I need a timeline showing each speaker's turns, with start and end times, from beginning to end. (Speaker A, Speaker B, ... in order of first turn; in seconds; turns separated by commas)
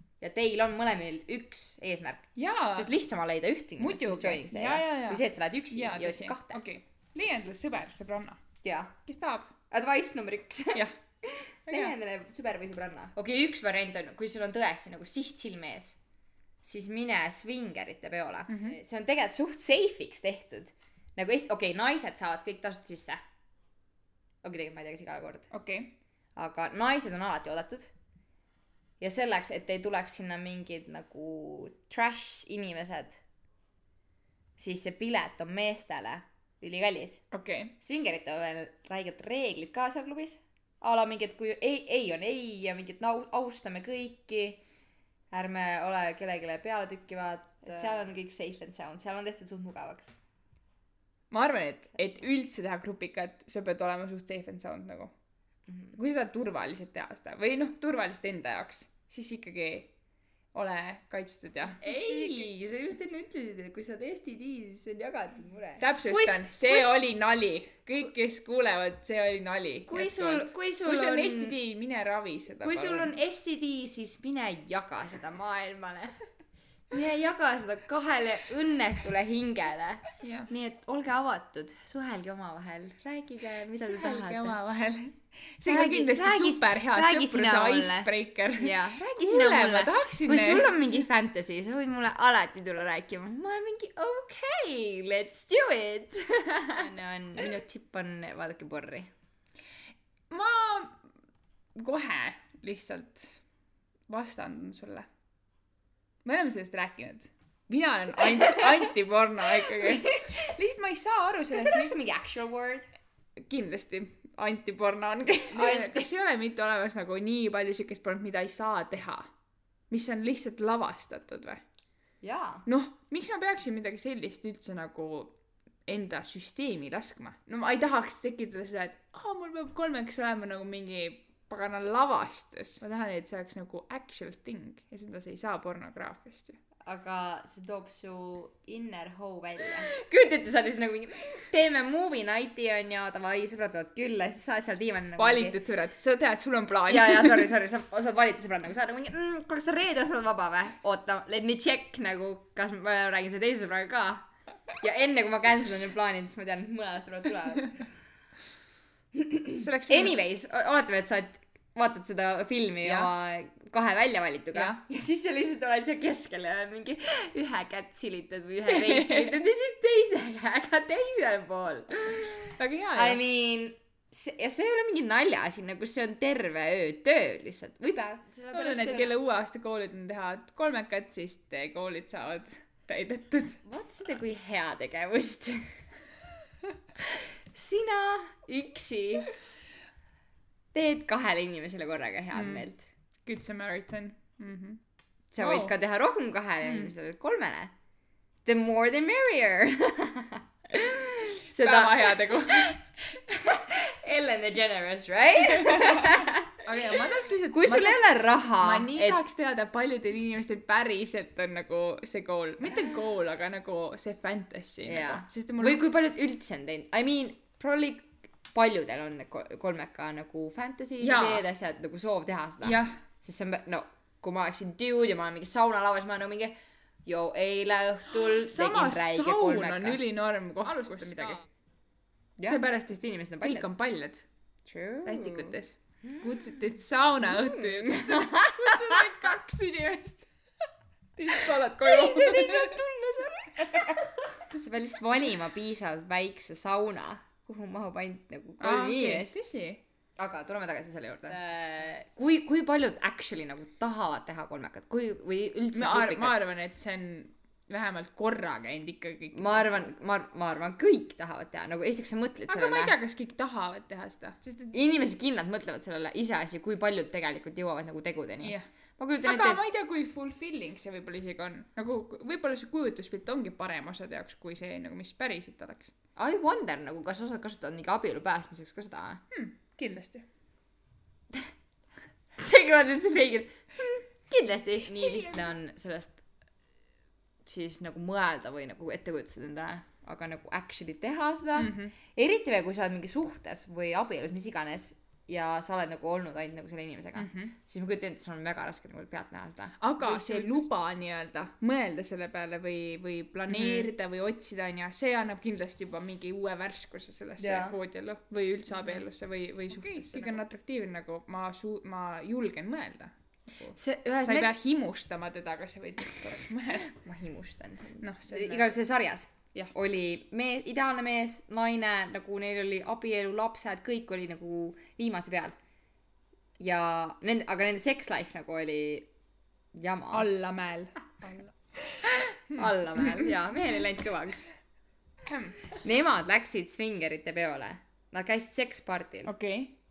Speaker A: 0.2-6.6, Speaker B: 2.4-2.9, Speaker B: 3.8-8.4, Speaker A: 8.6-9.0, Speaker B: 9.1-9.5, Speaker A: 9.7-16.0, Speaker B: 11.7-11.9, Speaker A: 16.6-23.2, Speaker B: 18.5-18.8, Speaker A: 24.4-25.5, Speaker B: 25.5-25.9, Speaker A: 26.4-27.9, Speaker A: 29.0-33.2, Speaker A: 34.6-37.2, Speaker B: 37.3-37.8, Speaker A: 37.8-44.6, Speaker A: 45.3-50.1, Speaker B: 51.3-55.1, Speaker B: 55.9-59.9, Speaker B: 60.5-62.5, Speaker A: 61.8-66.9, Speaker B: 65.8-73.1, Speaker A: 69.9-71.6, Speaker A: 72.6-76.2, Speaker A: 76.9-84.6, Speaker B: 80.2-80.5, Speaker B: 83.7-90.8, Speaker A: 85.7-99.1, Speaker B: 100.3-101.0, Speaker B: 101.8-103.3, Speaker B: 104.1-105.1, Speaker B: 106.2-111.9, Speaker A: 108.3-108.9, Speaker A: 109.7-110.5, Speaker A: 111.5-112.9, Speaker B: 113.4-119.3, Speaker A: 115.5-116.1, Speaker B: 119.9-121.6, Speaker A: 122.2-122.7, Speaker B: 122.7-125.3, Speaker B: 125.9-136.6, Speaker A: 136.8-145.6, Speaker B: 145.2-147.5, Speaker A: 146.9-157.9, Speaker A: 159.1-179.1, Speaker B: 159.6-160.2, Speaker B: 162.8-163.1, Speaker B: 168.7-169.4, Speaker B: 172.4-173.2, Speaker B: 178.5-183.6, Speaker A: 183.7-185.7, Speaker A: 187.0-189.4, Speaker A: 190.7-192.9, Speaker B: 192.3-192.7, Speaker B: 193.2-194.8, Speaker A: 195.3-197.7, Speaker B: 195.4-195.8, Speaker B: 196.6-196.9, Speaker A: 198.4-206.6, Speaker B: 201.5-202.8, Speaker B: 205.5-215.8, Speaker A: 207.5-209.2, Speaker A: 214.9-226.5, Speaker B: 221.0-221.4, Speaker B: 222.6-223.0, Speaker A: 227.1-230.0, Speaker B: 228.2-231.4, Speaker A: 230.6-231.4, Speaker A: 232.4-233.7, Speaker B: 232.4-234.2, Speaker A: 234.7-236.6, Speaker B: 235.1-240.3, Speaker A: 237.2-239.0, Speaker B: 241.2-242.9, Speaker A: 241.3-249.3, Speaker B: 243.6-244.1, Speaker B: 248.6-249.8, Speaker A: 250.2-256.4, Speaker B: 255.7-259.9, Speaker A: 259.3-263.0, Speaker B: 262.5-264.7, Speaker A: 264.7-269.6, Speaker B: 269.2-275.9, Speaker A: 276.2-279.2, Speaker B: 279.3-280.2, Speaker A: 282.4-286.2, Speaker B: 285.0-285.4, Speaker A: 287.4-300.7, Speaker B: 291.6-291.9, Speaker B: 297.2-297.5, Speaker B: 299.8-316.9, Speaker A: 303.5-303.9, Speaker A: 307.4-307.8, Speaker A: 309.8-310.4, Speaker A: 313.7-314.5, Speaker A: 316.9-325.6, Speaker B: 318.0-318.7, Speaker A: 326.6-329.1, Speaker A: 329.7-330.3, Speaker B: 330.1-333.5, Speaker A: 332.0-334.5, Speaker B: 335.3-335.7, Speaker A: 335.7-339.3, Speaker B: 339.2-339.8